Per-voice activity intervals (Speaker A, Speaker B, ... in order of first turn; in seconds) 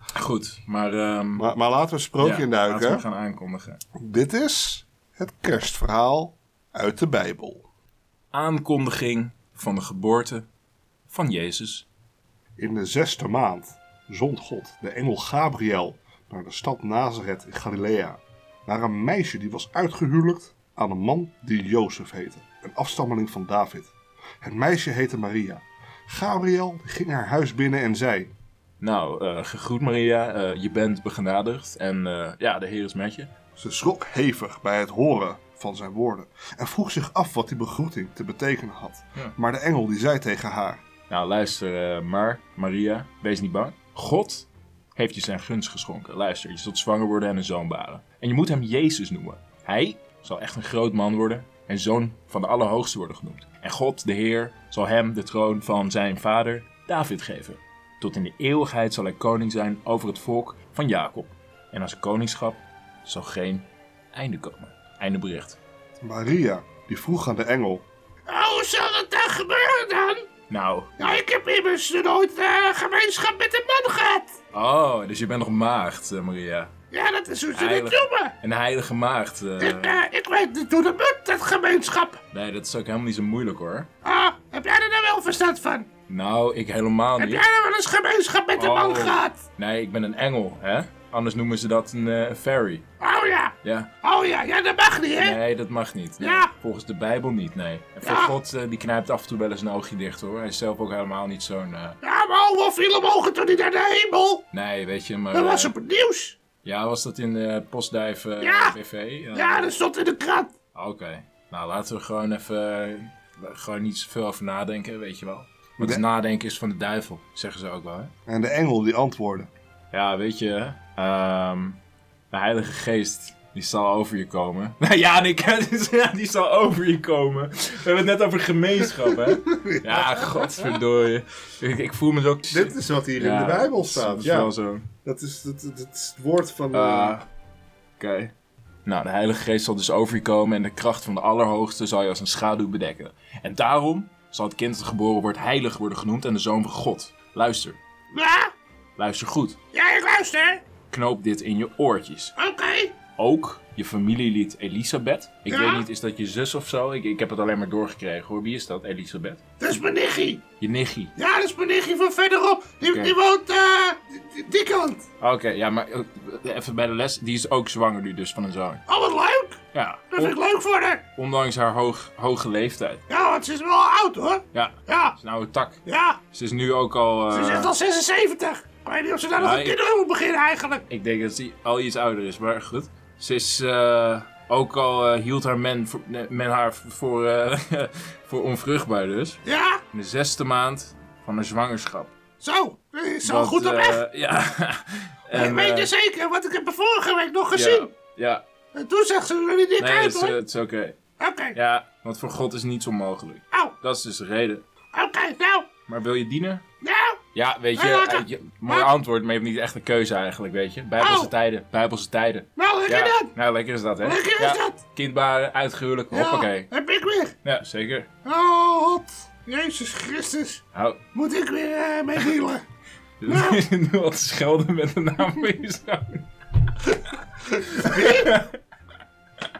Speaker A: 0.1-1.5, 2.2-3.8, 8.3-10.4, 11.1-11.8, 28.8-33.3, 41.1-65.6, 70.5-70.9, 74.5-76.7, 77.5-80.0, 82.3-83.9, 86.1-87.4, 88.6-92.8, 93.6-93.9, 95.2-102.0, 104.5-105.7, 106.6-109.7, 110.7-118.1, 119.9-121.8, 122.3-134.9, 136.7-137.2, 138.0-138.3, 138.8-147.8, 149.0-149.6, 150.9-152.3, 153.2-159.4, 160.6-161.1, 162.8-163.1, 165.2-168.8, 169.7-170.4, 171.2-173.0, 174.5-175.8, 176.3-177.7, 179.4-179.8, 180.9-189.4, 189.9-192.1, 193.2-195.9, 197.5-198.4, 199.8-201.0, 201.5-204.6, 205.9-206.6, 207.3-216.7, 217.4-218.1, 220.7-221.0, 223.2-226.3, 227.4-228.6
Speaker B: 1.4-3.0, 4.0-7.7, 12.6-28.3, 33.5-40.8, 66.0-67.8, 115.8-116.0, 118.2-119.5, 129.1-130.8, 132.5-134.5, 135.0-137.2
Speaker C: 68.3-70.2, 71.0-74.3, 76.9-78.3, 79.6-82.2, 84.0-85.9, 87.2-89.4, 93.0-95.4, 96.2-96.5, 98.0-98.3, 102.0-104.4, 105.3-106.4, 108.4-108.8, 109.3-110.5, 148.1-148.5, 149.7-150.6, 152.3-153.0, 155.5-155.9, 159.6-160.4, 161.2-165.0, 168.9-169.6, 170.1-171.0, 173.1-175.2, 175.8-176.2, 177.3-180.8, 189.4-189.8, 192.4-194.0, 195.3-197.9, 198.7-200.4, 201.2-201.6, 204.9-205.7, 206.8-207.2, 207.7-208.9, 211.0-211.3, 212.6-213.3, 214.0-214.8, 216.1-217.3, 218.2-220.6, 221.1-222.6, 223.3-223.6, 227.8-228.3